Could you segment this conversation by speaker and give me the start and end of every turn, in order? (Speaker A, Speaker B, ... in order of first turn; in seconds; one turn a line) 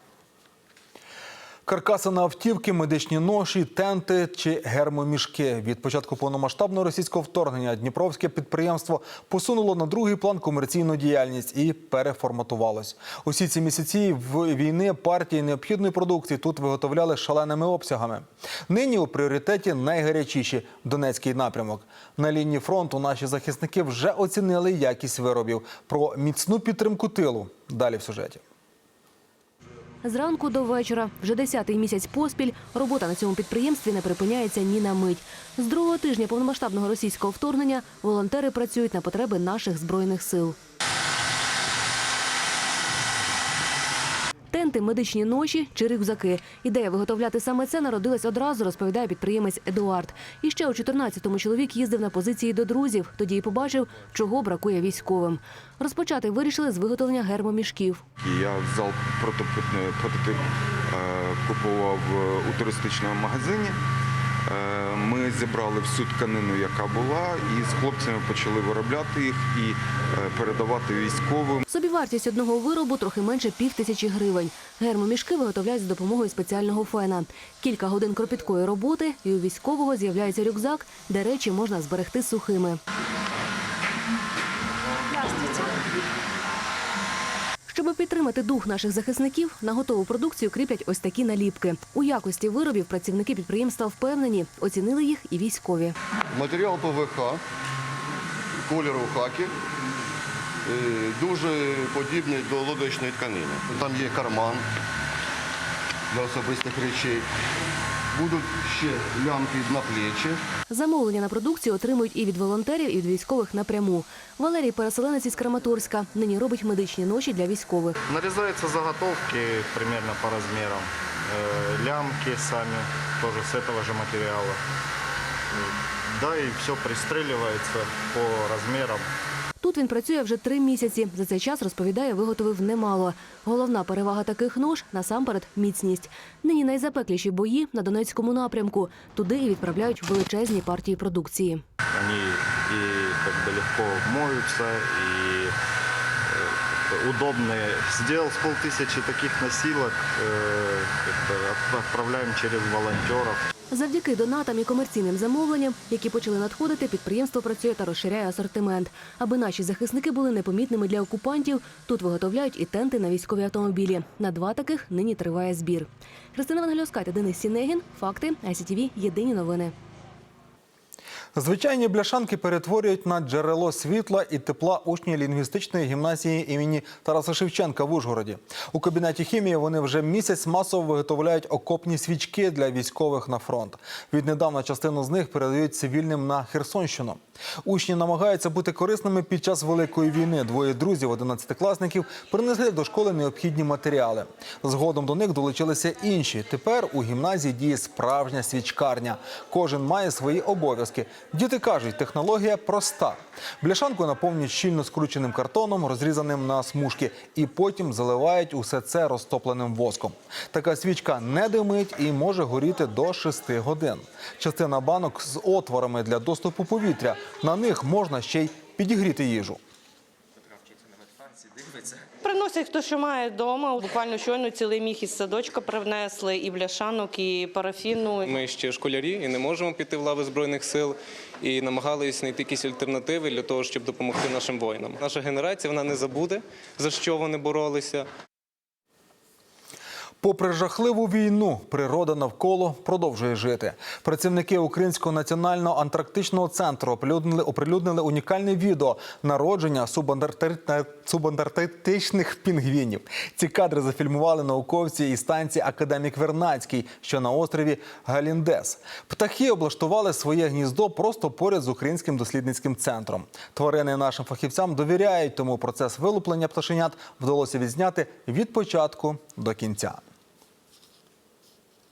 Speaker A: 1.6-28.4
Speaker B: 30.0-40.6
Speaker B: 44.5-58.0
Speaker C: 58.2-63.8
Speaker C: 64.5-71.6
Speaker B: 71.7-82.8
Speaker B: 85.2-85.7
Speaker B: 87.7-96.0
Speaker D: 96.3-97.4
Speaker D: 98.7-99.5
Speaker D: 100.7-104.6
Speaker D: 106.1-107.2
Speaker D: 108.1-110.4
Speaker B: 110.7-118.0
Speaker E: 118.1-124.6
Speaker E: 125.6-129.1
Speaker B: 129.6-141.6
Speaker E: 141.9-145.6
Speaker E: 146.3-153.4
Speaker B: 153.7-169.7
Speaker A: 171.3-219.6
Speaker F: 222.2-228.2
Speaker G: 228.2-238.1
Speaker A: 240.2-270.0